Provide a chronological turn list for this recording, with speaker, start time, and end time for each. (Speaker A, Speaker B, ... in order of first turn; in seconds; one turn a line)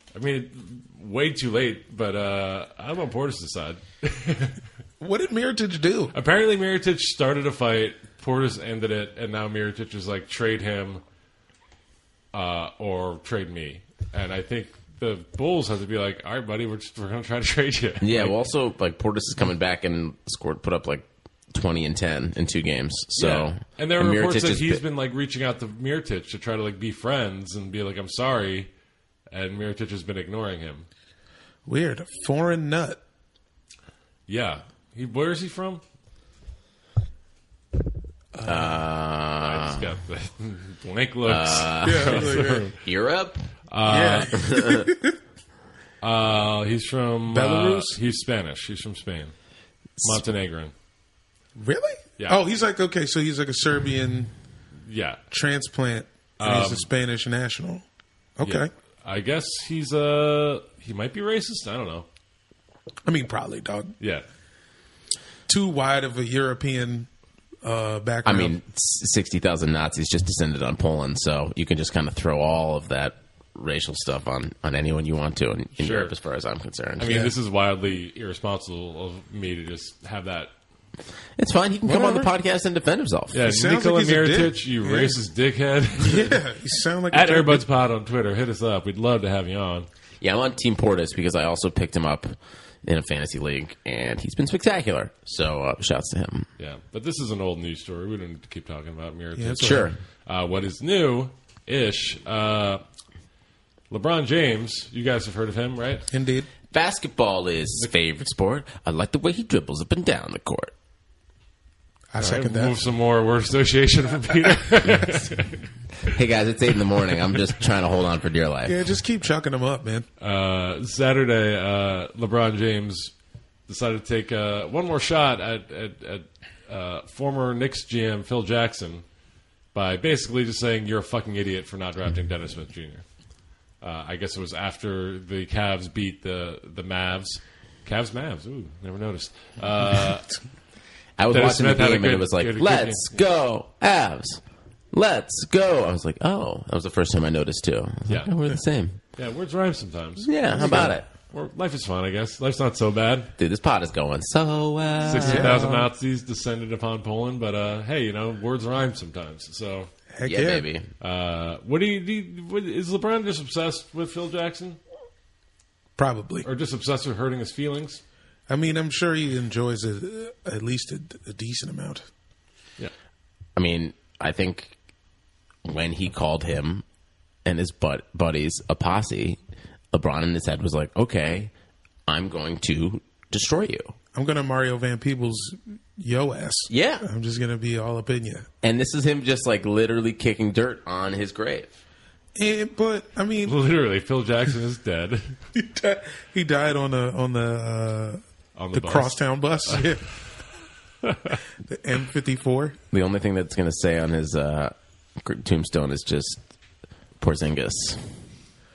Speaker A: 0.1-4.6
Speaker B: 5.0-6.1
Speaker A: 6.1-11.0
Speaker A: 12.3-18.3
Speaker C: 18.0-24.8
Speaker A: 23.2-28.7
Speaker A: 29.3-30.9
Speaker B: 31.6-33.0
Speaker A: 34.3-35.8
Speaker B: 38.4-38.8
Speaker C: 38.4-39.9
Speaker A: 39.4-42.8
Speaker C: 41.2-43.5
Speaker B: 41.8-42.6
Speaker A: 43.7-44.3
Speaker B: 43.8-45.2
Speaker C: 44.3-44.9
Speaker A: 46.0-49.3
Speaker B: 47.3-48.0
Speaker A: 50.0-50.7
Speaker B: 51.5-54.3
Speaker A: 54.8-55.2
Speaker B: 55.3-57.8
Speaker A: 56.4-56.9
Speaker B: 58.4-58.7
Speaker A: 58.4-62.0
Speaker B: 63.0-63.9
Speaker A: 64.0-64.2
Speaker B: 65.5-67.1
Speaker B: 67.6-68.5
Speaker C: 68.2-77.2
Speaker A: 75.8-76.1
Speaker A: 77.0-80.5
Speaker B: 77.0-77.3
Speaker C: 81.4-83.4
Speaker B: 81.8-82.3
Speaker A: 83.3-86.4
Speaker B: 83.4-85.2
Speaker B: 86.0-87.7
Speaker A: 87.1-89.9
Speaker C: 90.2-96.5
Speaker A: 96.6-102.8
Speaker B: 99.3-99.9
Speaker C: 99.6-100.0
Speaker A: 103.9-106.1
Speaker B: 106.1-106.5
Speaker C: 106.7-110.7
Speaker B: 112.1-112.8
Speaker A: 112.2-115.6
Speaker C: 116.1-118.8
Speaker B: 118.6-120.1
Speaker A: 120.2-123.1
Speaker A: 123.7-129.0
Speaker A: 129.7-133.0
Speaker A: 133.8-140.3
Speaker C: 141.2-144.4
Speaker A: 141.3-143.1
Speaker C: 144.9-149.0
Speaker A: 149.2-153.3
Speaker C: 150.2-151.1
Speaker B: 150.5-150.9
Speaker C: 153.4-155.6
Speaker A: 155.0-159.9
Speaker B: 155.2-155.9
Speaker B: 160.1-160.7
Speaker C: 160.2-160.9
Speaker A: 161.0-164.8
Speaker B: 166.0-166.5
Speaker A: 166.4-168.0
Speaker B: 168.5-172.1
Speaker C: 173.6-174.7
Speaker C: 175.6-176.8
Speaker C: 177.4-179.4
Speaker C: 179.9-181.5
Speaker C: 182.1-183.9
Speaker B: 184.1-188.5
Speaker C: 186.7-187.0
Speaker C: 188.6-191.8
Speaker B: 192.3-193.6
Speaker A: 193.4-195.3
Speaker B: 195.5-198.2
Speaker A: 198.6-199.8
Speaker B: 198.7-200.1
Speaker A: 201.0-201.4
Speaker B: 201.6-202.8
Speaker C: 202.9-206.4
Speaker C: 207.2-208.0